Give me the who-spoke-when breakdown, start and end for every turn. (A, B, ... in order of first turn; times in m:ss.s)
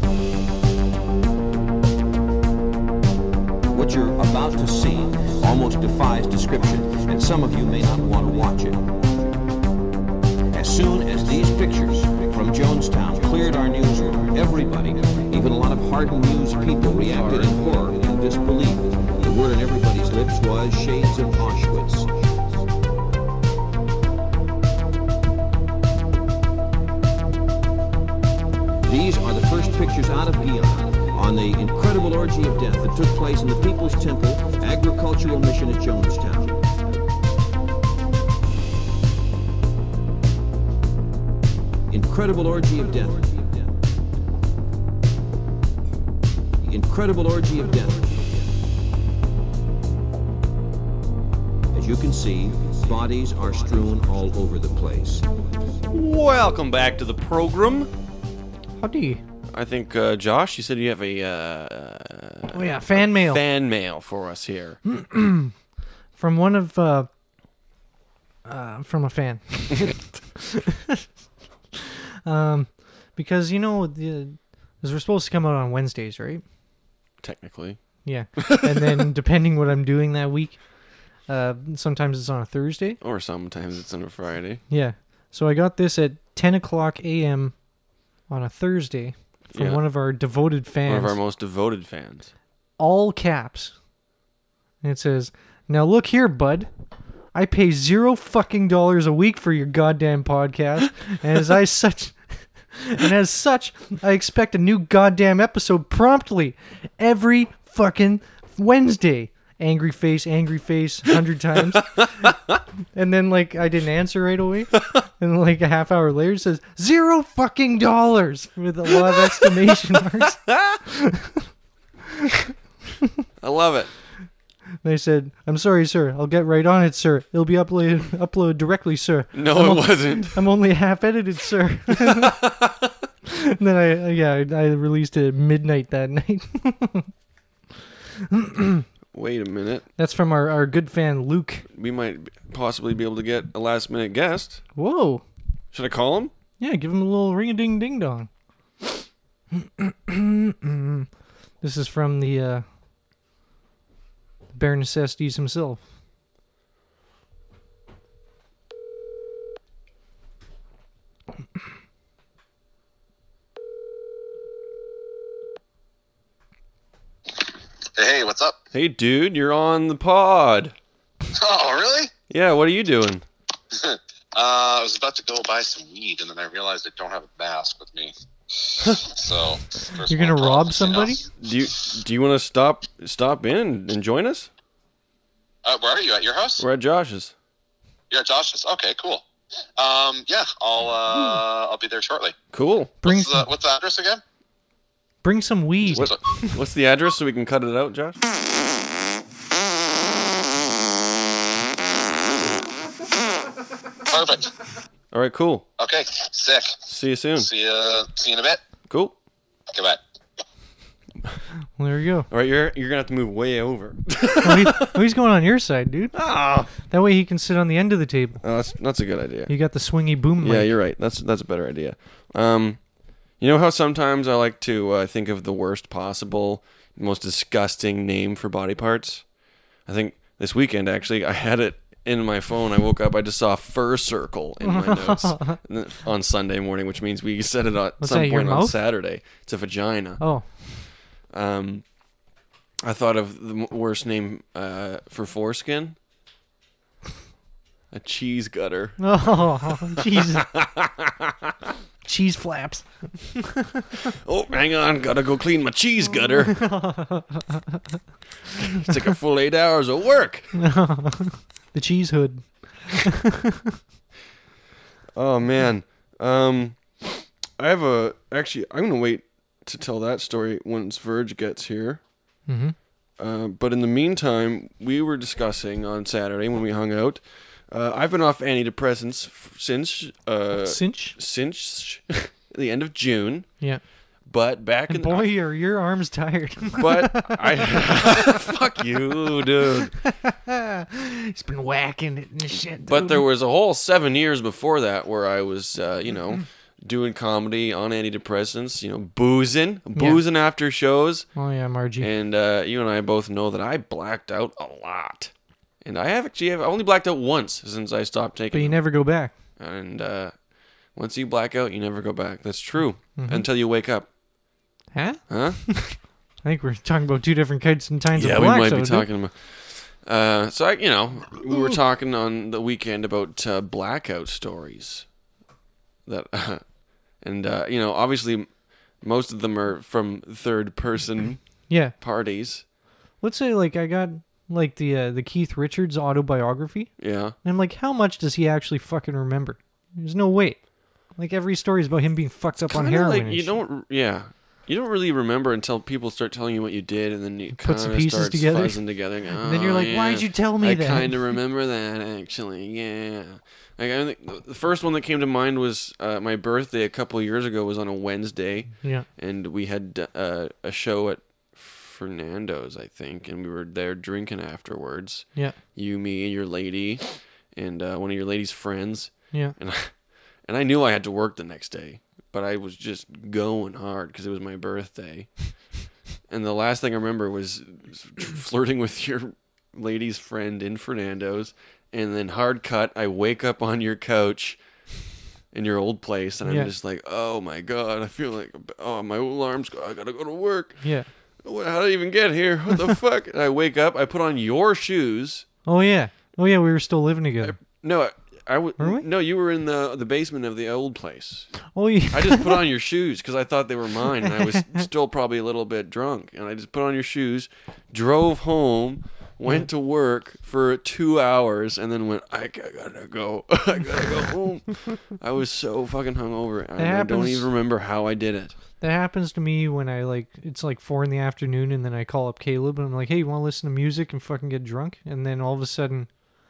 0:03.7-0:08.9 A
0:10.5-0:22.1 A
0:17.1-0:17.5 B
0:28.8-0:36.6 A
0:41.9-0:43.5 A
0:46.6-0:48.4 A
0:51.7-0:55.3 A
0:55.9-0:57.9 B
0:58.8-0:59.2 C
0:59.5-1:04.8 B
1:02.5-1:03.4 C
1:04.8-1:05.5 C
1:06.2-1:07.1 C
1:08.4-1:11.0 C
1:09.7-1:10.0 B
1:12.2-1:16.4 C
1:17.2-1:19.0 B
1:18.0-1:23.0 C
1:23.0-1:24.6 B
1:24.7-1:27.5 C
1:28.3-1:31.2 C
1:29.5-1:29.8 B
1:30.9-1:32.3 B
1:32.8-1:33.7 C
1:34.8-1:36.7 C
1:37.3-1:52.3 C
1:52.2-1:52.5 B
1:52.9-2:01.4 C
2:00.5-2:00.8 B
2:03.4-2:03.9 B
2:04.8-2:12.4 C
2:09.3-2:10.4 B
2:11.9-2:12.9 B
2:13.3-2:17.1 C
2:18.3-2:18.8 C
2:19.1-2:19.8 B
2:20.0-2:21.6 C
2:21.7-2:24.6 B
2:24.7-2:25.2 C
2:25.7-2:26.3 B
2:26.6-2:28.3 C
2:29.5-2:31.1 C
2:31.6-2:32.6 C
2:34.5-2:35.8 C
2:48.0-2:48.6 D
2:48.7-2:50.7 B
2:51.4-2:52.1 D
2:52.3-2:53.2 B
2:53.7-2:58.1 D
2:58.8-3:01.3 D
3:00.1-3:01.2 C
3:01.4-3:04.5 B
3:05.6-3:06.6 D
3:06.6-3:07.3 B
3:08.1-3:09.2 D
3:09.8-3:12.3 D
3:12.5-3:13.0 B
3:13.0-3:14.2 D
3:13.0-3:13.5 C
3:15.2-3:16.1 C
3:15.9-3:18.2 B
3:24.1-3:24.5 D
3:25.1-3:25.6 B
3:25.8-3:26.8 D
3:26.9-3:27.5 B
3:27.4-3:28.6 D
3:28.9-3:29.2 B
3:29.7-3:30.0 D
3:31.8-3:32.3 C
3:32.3-3:35.0 B
3:34.4-3:36.2 C
3:36.1-3:36.7 B
3:36.8-3:38.4 C
3:38.4-3:39.5 B
3:39.5-3:40.7 C
3:40.4-3:42.8 B
3:43.4-3:49.2 B
3:49.8-4:00.2 B
3:54.6-3:55.6 C
3:58.0-3:58.8 C
4:00.2-4:00.5 C
4:01.3-4:01.8 B
4:02.8-4:06.0 B
4:07.9-4:09.0 B
4:09.0-4:10.4 C
4:10.1-4:11.5 B
4:12.0-4:13.8 C
4:14.1-4:16.6 B
4:16.4-4:17.8 C
4:18.6-4:20.5 B
4:20.5-4:23.4 C
4:25.1-4:32.0 B
4:32.5-4:32.7 C
4:33.2-4:43.5 B
4:40.6-4:41.2 C
4:44.2-4:45.3 B
4:44.9-4:48.4 C
4:46.8-4:49.9 B
4:50.0-4:53.2 C
4:52.8-5:01.3 B
4:59.9-5:00.2 C
5:01.3-5:02.1 C
5:02.0-5:05.3 B
5:05.8-5:08.8 B
5:08.5-5:09.3 C
5:09.6-5:10.3 B
5:10.9-5:14.1 B
5:13.2-5:13.4 C
5:14.9-5:19.1 C
5:15.3-5:16.0 B
5:18.1-5:25.0 B
5:26.0-5:26.6 B
5:27.2-5:28.5 B
5:29.0-5:32.6 B
5:31.7-5:31.9 C
5:33.2-5:43.6 C
5:37.0-5:37.3 B
5:42.6-6:15.4 B
5:47.6-5:51.3 C
6:16.3-6:24.6 B
6:25.5-6:30.9 B
6:26.4-6:26.7 C
6:30.8-6:31.1 C
6:31.4-6:35.4 B
6:35.6-6:37.5 C
6:37.4-6:41.6 B
6:38.8-6:39.0 C
6:41.7-6:42.6 C
6:42.1-6:58.6 B
6:44.3-6:44.8 C
6:56.8-6:57.5 C
6:58.8-7:06.1 C